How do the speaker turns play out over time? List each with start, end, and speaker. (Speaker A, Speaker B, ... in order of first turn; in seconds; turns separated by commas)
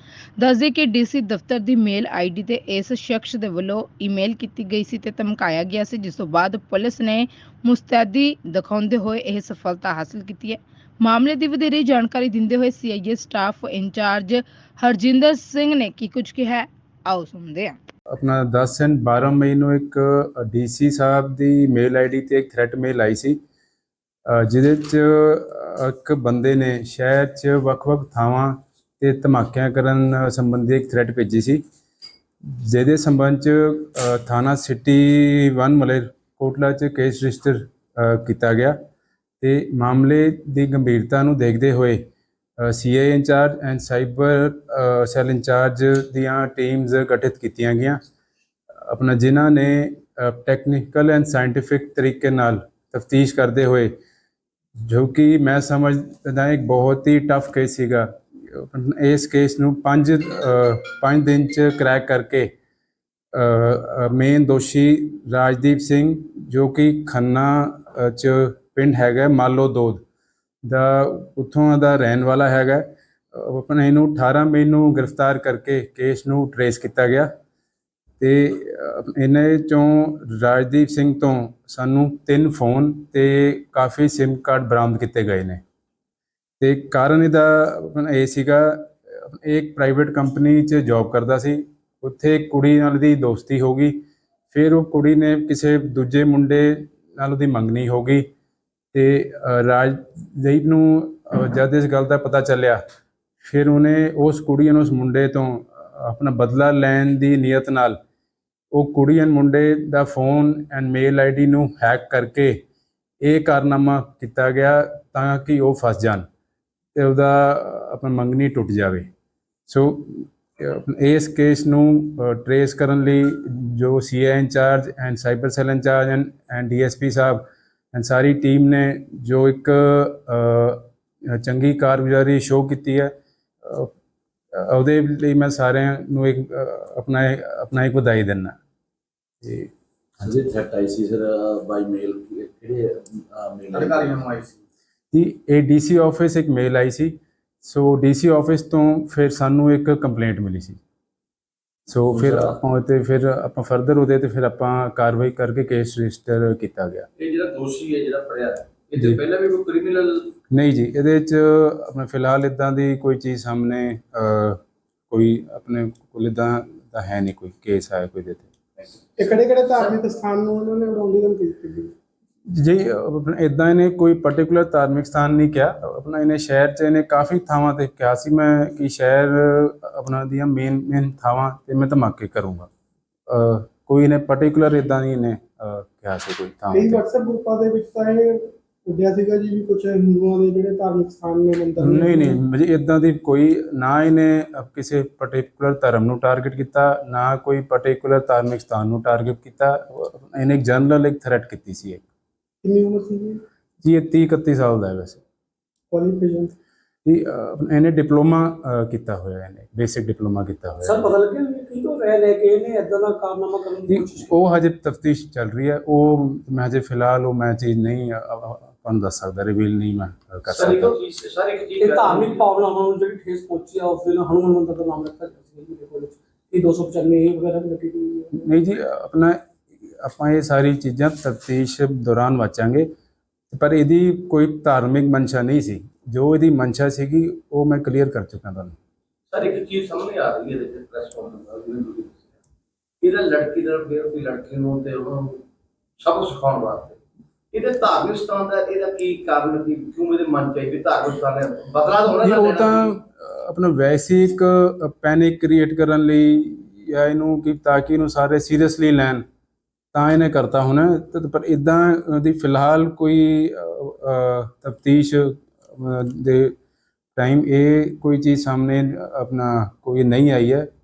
Speaker A: 0.4-17.8, Speaker B: 18.1-23.4, Speaker B: 24.3-31.6, Speaker B: 32.5-38.8, Speaker B: 39.4-42.0, Speaker B: 42.6-48.0, Speaker B: 48.9-53.9, Speaker B: 54.8-62.5, Speaker B: 63.3-70.0, Speaker B: 70.6-77.3, Speaker B: 78.2-85.6, Speaker B: 86.6-98.3, Speaker B: 98.9-102.8, Speaker B: 103.4-108.0, Speaker B: 108.7-112.6, Speaker B: 113.2-116.2, Speaker B: 117.0-119.1, Speaker B: 119.7-133.9, Speaker B: 134.5-138.6, Speaker B: 139.4-139.7, Speaker C: 140.2-144.2, Speaker B: 145.1-150.8, Speaker B: 151.9-157.1, Speaker C: 152.2-152.5, Speaker D: 157.2-160.3, Speaker B: 160.5-168.9, Speaker E: 169.2-171.9, Speaker B: 172.5-182.7, Speaker B: 183.3-187.0, Speaker E: 186.7-192.4, Speaker B: 191.8-202.0, Speaker E: 202.6-203.4, Speaker B: 203.8-205.2, Speaker E: 205.9-206.5, Speaker B: 207.0-211.1, Speaker F: 210.8-214.3, Speaker B: 213.9-220.9, Speaker D: 220.5-222.4, Speaker F: 221.8-228.5, Speaker B: 228.4-229.4, Speaker B: 229.9-232.9, Speaker B: 233.5-238.8, Speaker D: 239.3-242.2, Speaker D: 243.0-245.4, Speaker D: 246.0-247.0, Speaker D: 247.5-252.9, Speaker B: 252.2-259.2, Speaker B: 259.9-266.6, Speaker B: 267.2-270.7